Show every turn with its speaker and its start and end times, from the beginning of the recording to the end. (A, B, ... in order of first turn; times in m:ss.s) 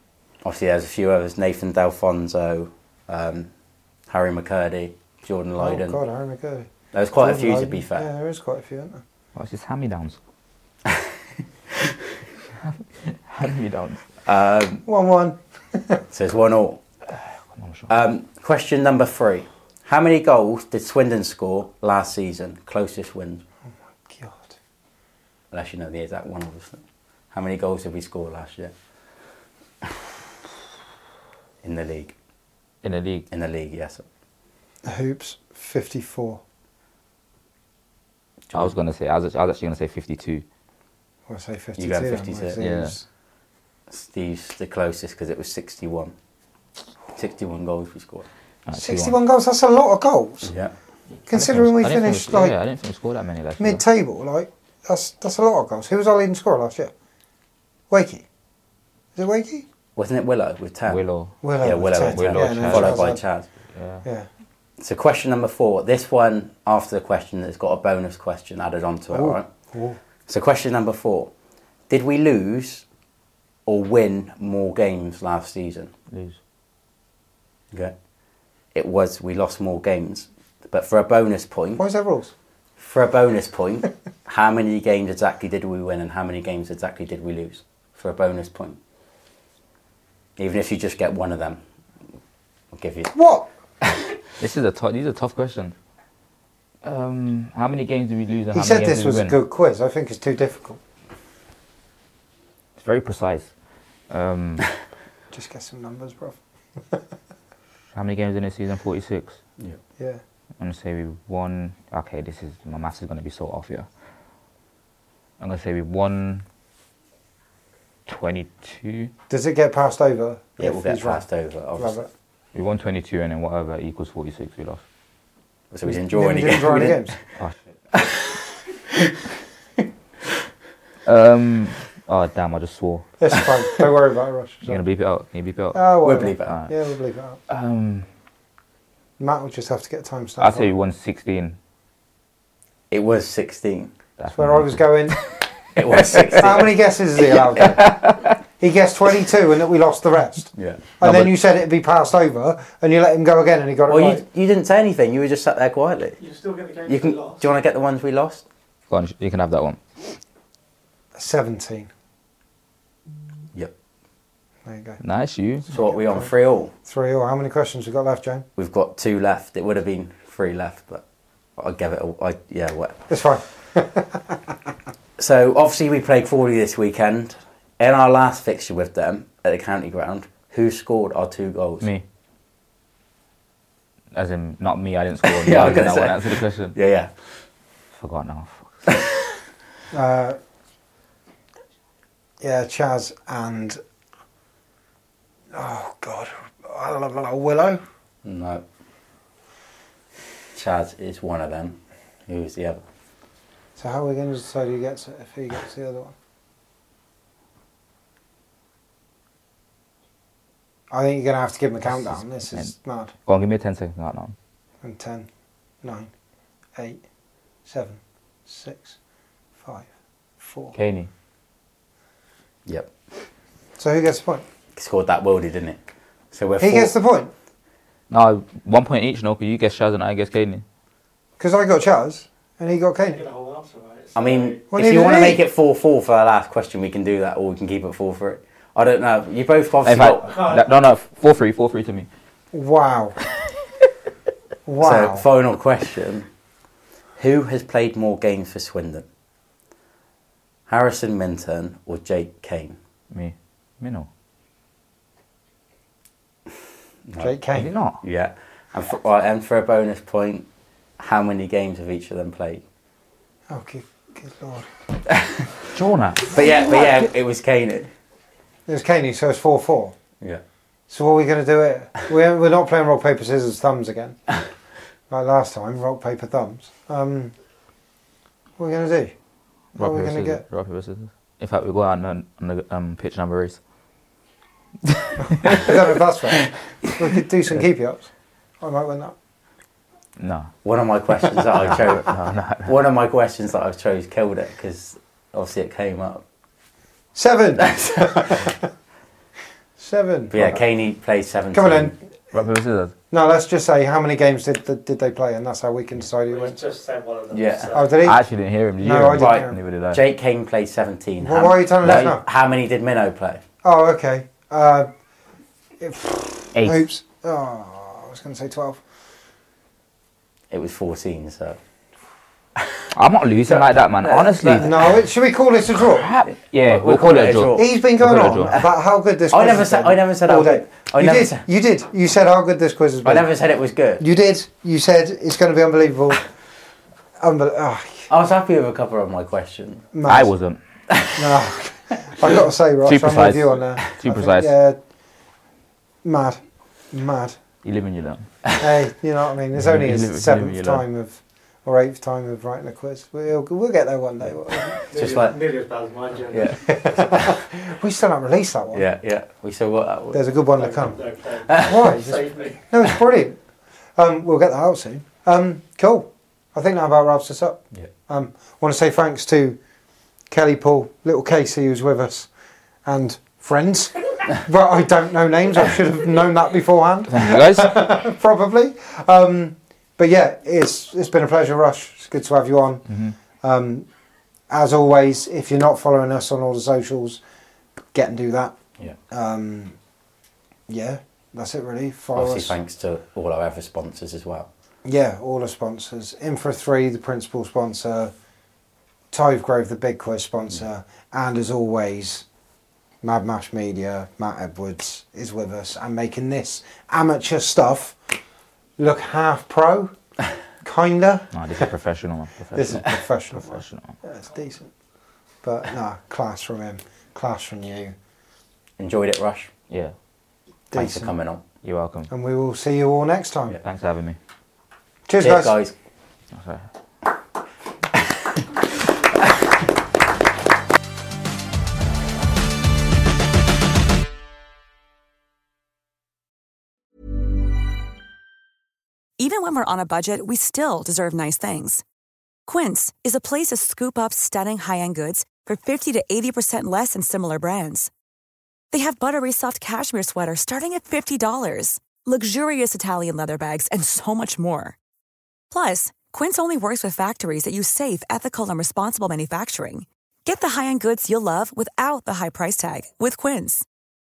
0:00.4-0:03.5 A
0:04.1-0:06.0 A
0:05.6-0:09.0 B
0:06.9-0:08.0 A
0:09.3-0:10.2 C
0:12.6-0:14.0 C
0:14.2-0:14.8 A
0:14.8-0:16.0 B
0:16.1-0:16.8 A
0:17.1-0:17.9 C
0:17.9-0:23.4 A
0:23.9-0:24.6 B
0:25.5-0:28.7 A
0:31.6-0:32.1 A
0:32.8-0:33.3 C
0:33.3-0:34.0 A
0:34.8-0:36.4 B
0:38.5-0:40.4 C
0:41.3-0:43.0 B
0:41.8-0:42.6 A
0:42.6-0:42.9 C
0:43.9-0:46.1 A
0:47.1-0:48.3 A
0:48.6-0:49.2 C
0:48.7-0:50.5 B
0:50.4-0:50.7 A
0:51.2-0:52.6 B
0:51.3-0:53.8 C
0:53.6-0:56.9 B
0:57.9-0:58.2 B
0:59.1-0:59.6 B
1:00.0-1:01.0 A
1:00.9-1:03.1 C
1:01.4-1:03.2 B
1:01.6-1:03.4 A
1:03.7-1:04.0 C
1:04.0-1:04.3 B
1:04.8-1:09.5 A
1:09.1-1:10.0 B
1:10.3-1:11.3 A
1:11.9-1:12.8 A
1:13.6-1:15.9 A
1:16.1-1:16.4 C
1:18.7-1:21.8 A
1:21.8-1:22.3 B
1:22.8-1:28.8 A
1:30.4-1:31.6 A
1:32.7-1:33.1 A
1:33.1-1:33.5 B
1:33.8-1:34.1 A
1:34.4-1:35.7 C
1:36.8-1:39.4 C
1:38.5-1:40.8 B
1:42.8-1:43.5 C
1:44.1-1:44.7 C
1:45.3-1:47.0 B
1:47.9-1:49.4 C
1:50.6-1:53.9 C
1:55.4-1:56.4 C
1:58.1-1:59.1 C
1:59.3-2:02.1 B
2:00.6-2:02.0 A
2:02.5-2:04.8 C
2:05.7-2:07.3 A
2:05.9-2:07.2 B
2:07.9-2:08.2 A
2:11.0-2:13.1 C
2:13.2-2:14.8 B
2:14.6-2:16.7 C
2:15.7-2:17.4 B
2:16.0-2:16.6 A
2:17.5-2:18.1 C
2:19.2-2:20.7 B
2:20.4-2:21.6 C
2:22.9-2:23.9 A
2:24.2-2:25.4 C
2:24.4-2:25.2 B
2:25.7-2:26.7 A
2:26.4-2:34.2 B
2:27.6-2:28.3 C
2:31.0-2:31.3 C
2:33.9-2:36.2 A
2:36.2-2:37.6 D
2:36.8-2:38.4 A
2:38.9-2:40.1 C
2:41.1-2:41.9 B
2:44.6-2:45.0 B
2:45.0-2:45.7 C
2:45.7-2:46.3 B
2:45.7-2:46.7 A
2:46.8-2:48.4 B
2:48.6-2:51.0 A
2:51.6-2:53.1 A
2:53.1-2:54.4 B
2:55.2-3:01.9 A
3:04.1-3:06.7 C
3:05.2-3:07.1 A
3:08.0-3:08.9 C
3:09.9-3:10.4 B
3:12.4-3:13.8 B
3:15.5-3:17.8 B
3:18.2-3:18.6 A
3:20.5-3:22.8 A
3:23.8-3:26.1 B
3:30.9-3:33.1 B
3:31.8-3:32.7 C
3:33.2-3:34.4 C
3:34.8-3:35.3 B
3:35.8-3:36.1 B
3:36.8-3:37.0 B
3:37.6-3:39.0 B
3:39.6-3:40.7 B
3:40.7-3:41.1 C
3:42.7-3:42.9 A
3:43.8-3:44.4 B
3:44.8-3:45.8 A
3:46.3-3:46.9 A
3:46.6-3:47.3 B
3:48.1-3:50.6 C
3:51.4-3:53.2 B
3:53.0-3:54.7 D
3:54.1-4:00.3 A
3:54.7-3:55.4 B
3:59.8-4:02.1 C
4:00.2-4:00.7 D
4:02.5-4:03.2 B
4:04.6-4:05.2 B
4:04.8-4:06.3 A
4:07.2-4:09.0 A
4:10.7-4:12.8 A
4:13.1-4:14.1 C
4:17.2-4:17.7 B
4:17.5-4:18.0 C
4:18.0-4:20.4 A
4:21.0-4:22.6 A
4:23.5-4:24.7 B
4:25.1-4:25.5 A
4:25.7-4:26.3 C
4:26.2-4:27.9 A
4:28.7-4:29.9 B
4:30.9-4:34.3 B
4:35.1-4:37.3 B
4:38.6-4:39.2 B
4:39.7-4:40.4 B
4:39.8-4:43.6 C
4:45.3-4:49.1 B
4:50.2-4:50.5 C
4:50.6-4:56.2 A
4:51.8-4:52.7 C
4:57.1-4:58.6 B
4:57.6-4:58.4 A
4:59.8-5:00.6 B
5:00.3-5:01.9 A
5:01.5-5:01.9 B
5:02.3-5:02.9 C
5:03.1-5:06.6 B
5:06.3-5:08.1 D
5:07.3-5:07.7 A
5:07.7-5:08.2 B
5:08.0-5:10.0 C
5:08.8-5:09.6 B
5:09.1-5:13.4 A
5:11.2-5:12.2 B
5:13.6-5:14.9 B
5:15.8-5:18.8 B
5:16.5-5:16.8 C
5:20.5-5:21.6 A
5:22.9-5:24.7 C
5:23.5-5:24.9 A
5:24.4-5:26.1 B
5:25.7-5:28.5 C
5:26.6-5:27.8 A
5:27.5-5:33.3 B
5:29.3-5:31.4 A
5:33.0-5:34.0 A
5:34.0-5:36.3 B
5:37.2-5:38.1 B
5:38.1-5:39.9 A
5:39.9-5:40.3 B
5:40.1-5:40.6 C
5:40.9-5:41.4 A
5:41.1-5:44.8 B
5:42.8-5:44.5 C
5:46.0-5:47.4 B
5:47.6-5:48.4 C
5:48.6-5:54.8 B
5:49.5-5:50.8 C
5:54.9-5:56.8 D
5:54.9-5:55.5 A
5:56.3-5:57.3 A
5:56.6-5:58.8 B
5:58.7-6:00.2 A
6:00.1-6:03.4 B
6:00.6-6:02.6 D
6:01.4-6:01.9 A
6:04.0-6:09.6 B
6:10.3-6:12.3 B
6:12.8-6:23.9 B
6:17.1-6:17.8 C
6:22.9-6:23.2 C
6:24.5-6:27.2 B
6:27.9-6:29.8 B
6:30.7-6:32.6 B
6:32.1-6:34.5 A
6:34.8-6:38.1 B
6:39.1-6:42.2 B
6:43.0-6:48.2 B
6:48.8-6:50.0 B
6:50.6-6:51.7 B
6:51.3-6:54.0 C
6:52.5-6:54.7 B
6:55.4-6:58.0 B
6:58.8-6:59.5 A
7:00.7-7:01.1 B
7:00.7-7:01.4 A
7:01.6-7:02.1 C
7:02.1-7:03.6 B
7:03.6-7:04.2 C
7:05.1-7:05.6 B
7:05.2-7:05.7 A
7:06.3-7:06.7 C
7:19.2-7:21.8 E
7:22.4-7:27.9 E
7:28.7-7:34.8 E
7:35.5-7:43.6 E